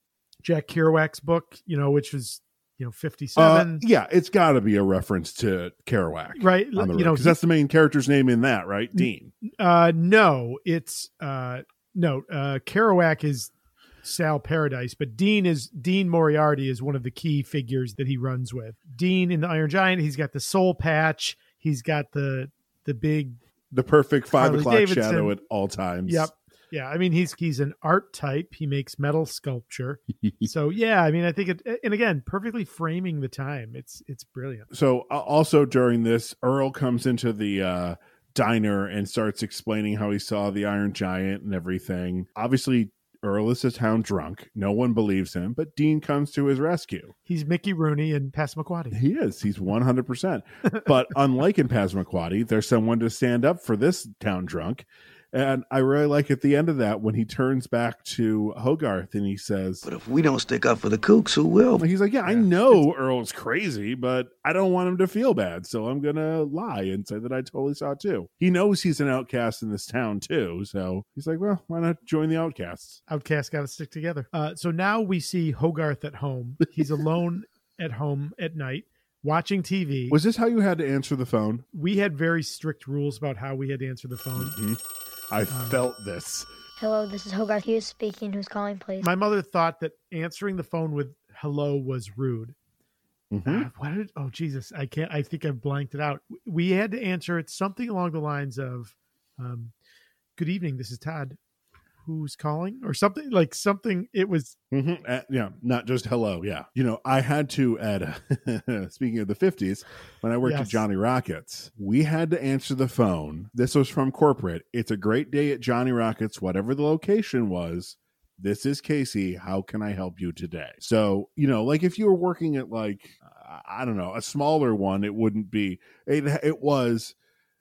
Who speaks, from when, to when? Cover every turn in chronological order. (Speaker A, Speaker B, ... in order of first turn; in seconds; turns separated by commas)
Speaker A: 0.4-3.9, Speaker B: 3.4-9.3, Speaker A: 6.4-7.4, Speaker A: 8.9-13.5, Speaker A: 14.0-23.4, Speaker B: 23.7-26.3, Speaker A: 24.3-25.4, Speaker A: 26.1-34.7, Speaker B: 30.2-30.5, Speaker B: 34.7-47.1, Speaker A: 47.3-49.0, Speaker B: 48.9-59.8, Speaker C: 59.8-61.8, Speaker B: 61.8-73.0, Speaker A: 62.2-62.9, Speaker A: 73.1-80.2, Speaker B: 80.1-81.6, Speaker A: 81.7-84.6, Speaker B: 84.4-86.5, Speaker A: 85.5-85.8, Speaker D: 86.8-89.1, Speaker A: 89.0-92.5, Speaker B: 93.3-93.7, Speaker A: 93.5-99.7, Speaker A: 100.4-101.4, Speaker A: 102.0-104.6, Speaker B: 104.7-127.2, Speaker A: 110.4-110.8